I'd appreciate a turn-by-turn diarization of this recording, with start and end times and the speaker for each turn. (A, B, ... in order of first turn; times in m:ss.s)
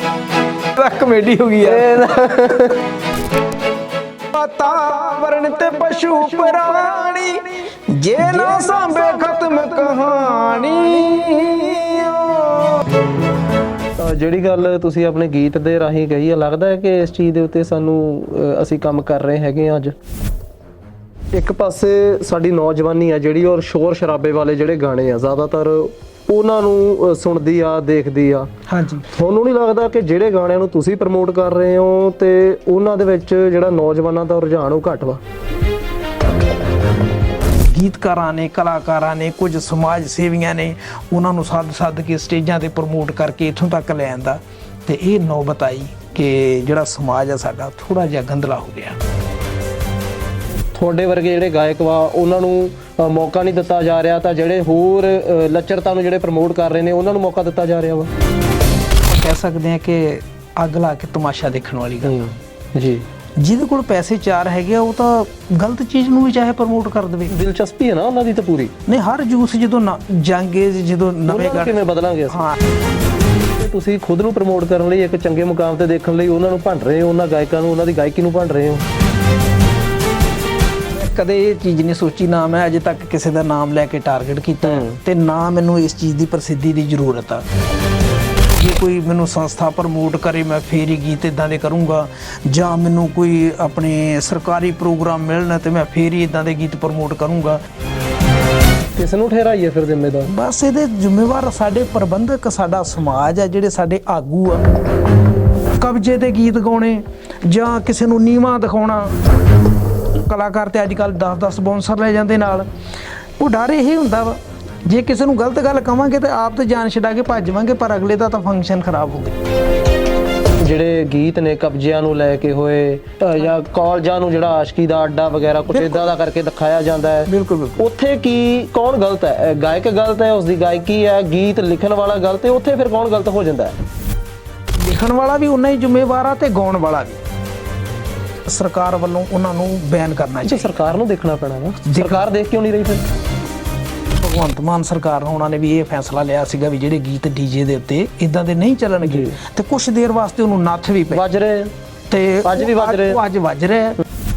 0:00.7-0:02.0 A
0:01.6-0:02.8 B
0:04.3-0:12.8 A
0:14.0-0:20.0 B
0:21.3-0:28.5 B
0:28.7-0:29.1 A
0:29.1-0:35.2 B
0:37.7-0:49.0 A
0:50.6-0:58.1 B
0:59.0-1:02.3 A
1:02.0-1:03.1 B
1:03.4-1:07.3 A
1:07.3-1:08.7 B
1:08.9-1:11.8 A
1:11.3-1:12.4 B
1:12.3-1:12.6 A
1:13.4-1:18.8 B
1:20.9-1:27.4 A
1:24.6-1:25.0 B
1:28.5-1:37.6 A
1:39.0-1:40.3 B
1:40.3-1:44.6 A
1:45.8-1:49.1 A
1:50.3-1:52.7 A
1:53.4-1:59.4 A
2:00.6-2:13.8 B
2:05.7-2:06.1 A
2:07.3-2:07.8 A
2:14.8-2:17.2 A
2:18.5-2:21.0 A
2:20.4-2:23.0 B
2:21.8-2:22.2 A
2:24.2-2:31.2 A
2:29.0-2:29.4 B
2:31.1-2:31.7 B
2:32.1-2:34.0 A
2:32.4-2:33.2 B